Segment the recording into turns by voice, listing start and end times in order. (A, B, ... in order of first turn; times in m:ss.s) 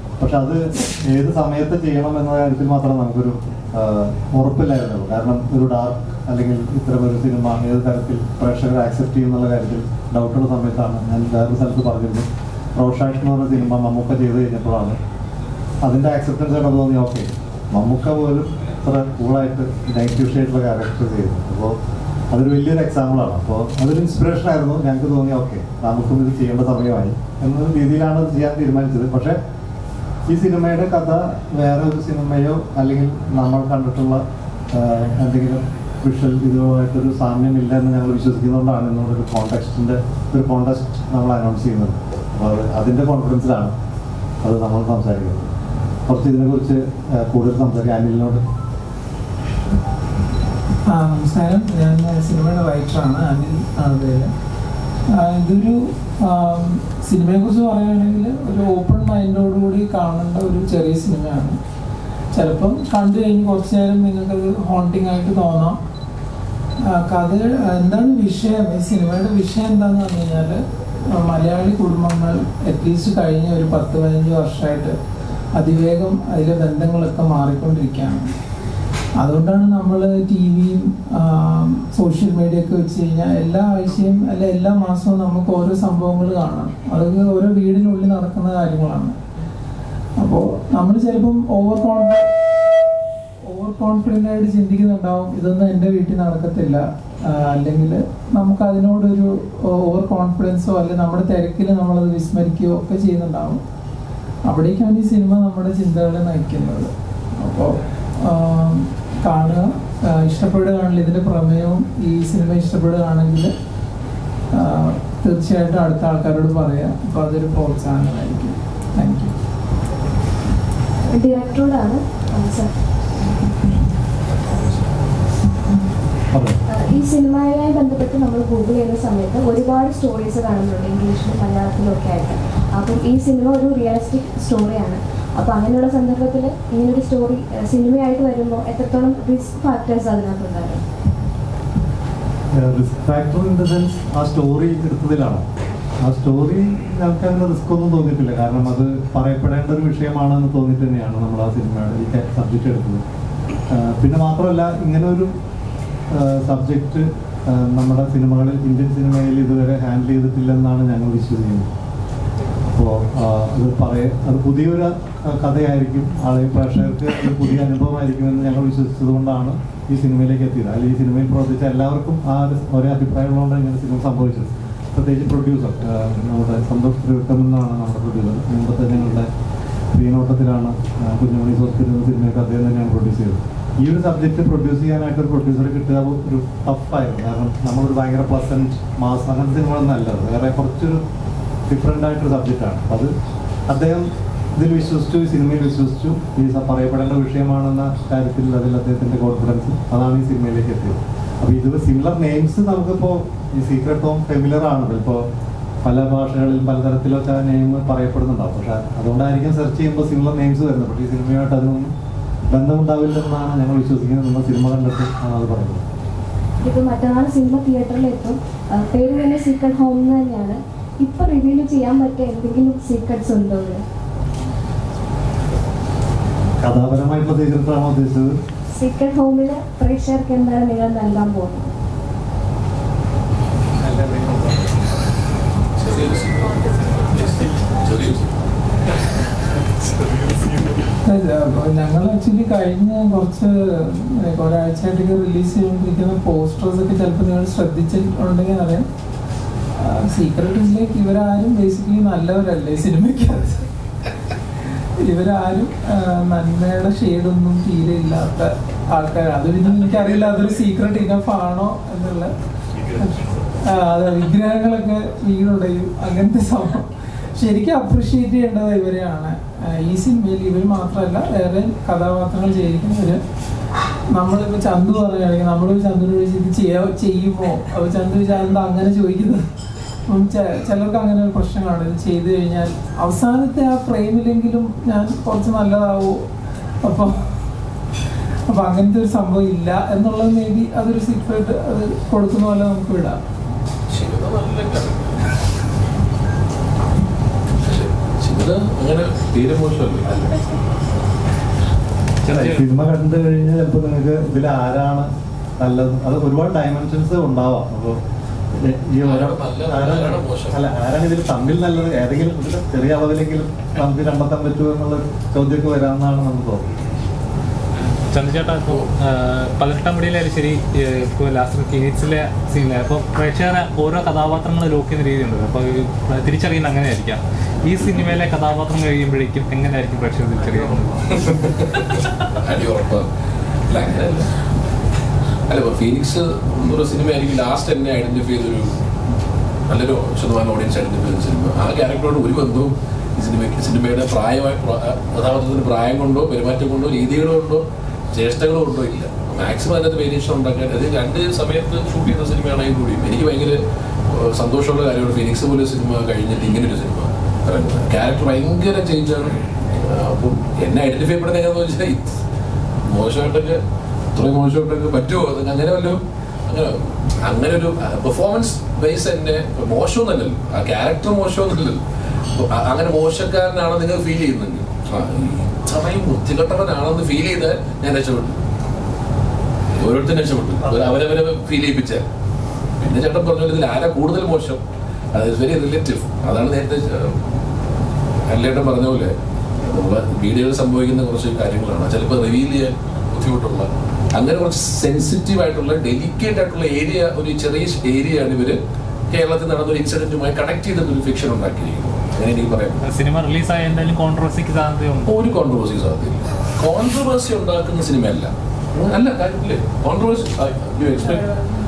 0:00.2-0:15.0 A
0:15.8-0:21.8 A
0:22.3-0:29.4 A
0:30.3-0:43.7 A
0:44.4-0:45.5 A
0:46.0-0:48.4 A
0:50.9-0:54.3 B
0:55.1-1:01.6 B
1:02.3-1:05.8 B
1:06.8-1:15.0 B
1:15.5-1:18.3 B
1:19.2-1:29.2 B
1:30.2-1:32.3 B
1:33.4-1:43.6 B
1:44.5-1:53.5 B
1:54.5-1:59.3 B
2:01.1-2:02.7 C
2:06.3-2:06.6 A
2:06.7-2:20.8 C
2:22.5-2:25.5 A
2:26.0-2:33.0 A
2:33.7-2:35.3 A
2:36.1-2:41.7 A
2:42.7-2:59.3 A
2:59.9-3:11.0 A
3:11.7-3:13.1 A
3:13.7-3:25.3 A
3:25.8-3:31.9 A
3:32.5-3:35.8 A
3:36.6-3:43.8 C
3:46.6-3:48.3 A
3:48.7-3:51.7 C
3:53.8-3:54.6 A
3:55.8-3:58.3 D
4:00.0-4:00.7 A
4:01.0-4:08.9 B
4:09.8-4:13.7 B
4:15.0-4:22.3 B
4:23.0-4:33.2 B
4:34.1-4:39.4 B
4:40.1-4:46.2 B
4:46.8-4:47.3 B
4:48.5-4:53.2 B
4:53.9-4:55.3 D
4:57.6-5:00.5 D
5:02.2-5:02.6 E
5:02.3-5:08.0 A
5:08.5-5:16.6 A
5:09.0-5:10.6 D
5:18.1-5:31.2 E
5:31.2-5:33.1 D
5:33.7-5:34.3 D
5:35.5-5:38.8 D
5:39.7-6:02.2 D
6:02.8-6:03.6 D
6:04.1-6:11.8 D
6:12.3-6:18.4 D
6:19.8-6:22.0 D
6:20.6-6:21.0 A
6:22.8-6:24.6 D
6:25.1-6:27.2 D
6:28.3-6:38.6 D
6:39.1-6:42.8 D
6:42.8-6:45.1 E
6:45.0-6:51.4 D